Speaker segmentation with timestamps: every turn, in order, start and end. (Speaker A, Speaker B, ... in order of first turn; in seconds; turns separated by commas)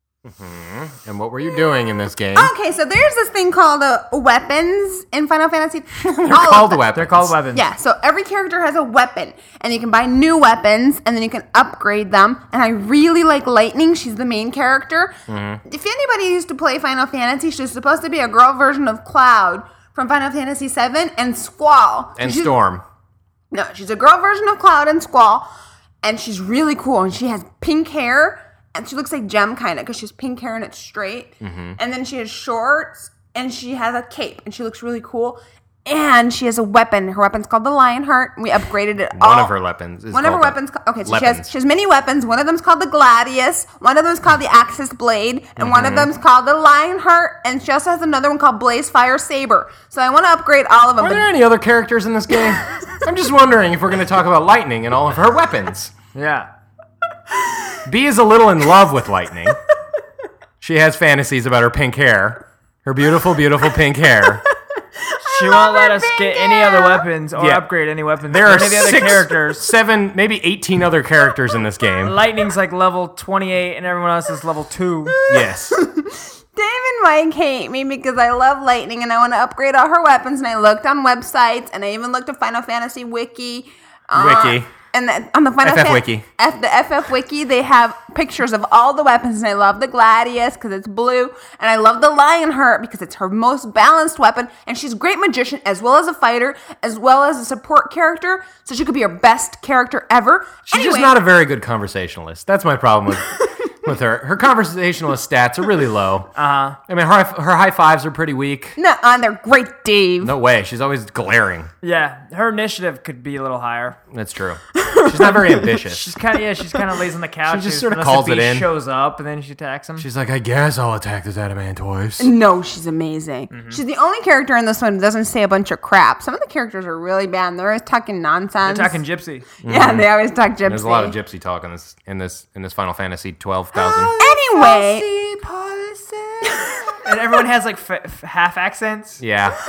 Speaker A: 0.2-2.5, Speaker B: 2.3-6.8, Speaker A: 6.0-7.4, Speaker C: 6.9-7.6, Speaker B: 7.5-22.5, Speaker A: 15.3-15.6, Speaker A: 22.2-22.8, Speaker B: 23.5-25.5, Speaker B: 26.0-39.5, Speaker A: 31.4-31.8, Speaker A: 39.1-41.5, Speaker B: 40.1-51.3, Speaker A: 45.6-46.1, Speaker A: 51.0-55.9, Speaker C: 56.1-56.5, Speaker A: 57.9-59.6, Speaker A: 60.6-64.4, Speaker B: 65.2-67.0, Speaker C: 65.2-69.7, Speaker A: 67.3-67.7, Speaker A: 68.2-72.2, Speaker C: 72.0-75.2, Speaker B: 75.1-101.2, Speaker A: 75.3-75.8, Speaker A: 84.1-84.7, Speaker A: 85.6-86.2, Speaker A: 100.7-106.3, Speaker C: 106.3-106.8, Speaker A: 106.9-108.8, Speaker B: 108.8-110.3, Speaker A: 110.2-111.7, Speaker C: 111.8-114.0, Speaker A: 114.1-116.0, Speaker B: 114.8-115.7, Speaker C: 115.8-120.0, Speaker A: 117.5-118.7, Speaker A: 120.0-122.3, Speaker B: 122.2-129.0, Speaker C: 123.5-123.8, Speaker C: 128.6-129.5, Speaker A: 129.6-130.1, Speaker B: 129.6-131.2, Speaker A: 130.6-134.1, Speaker C: 133.7-139.2, Speaker B: 134.2-135.1, Speaker A: 139.2-139.6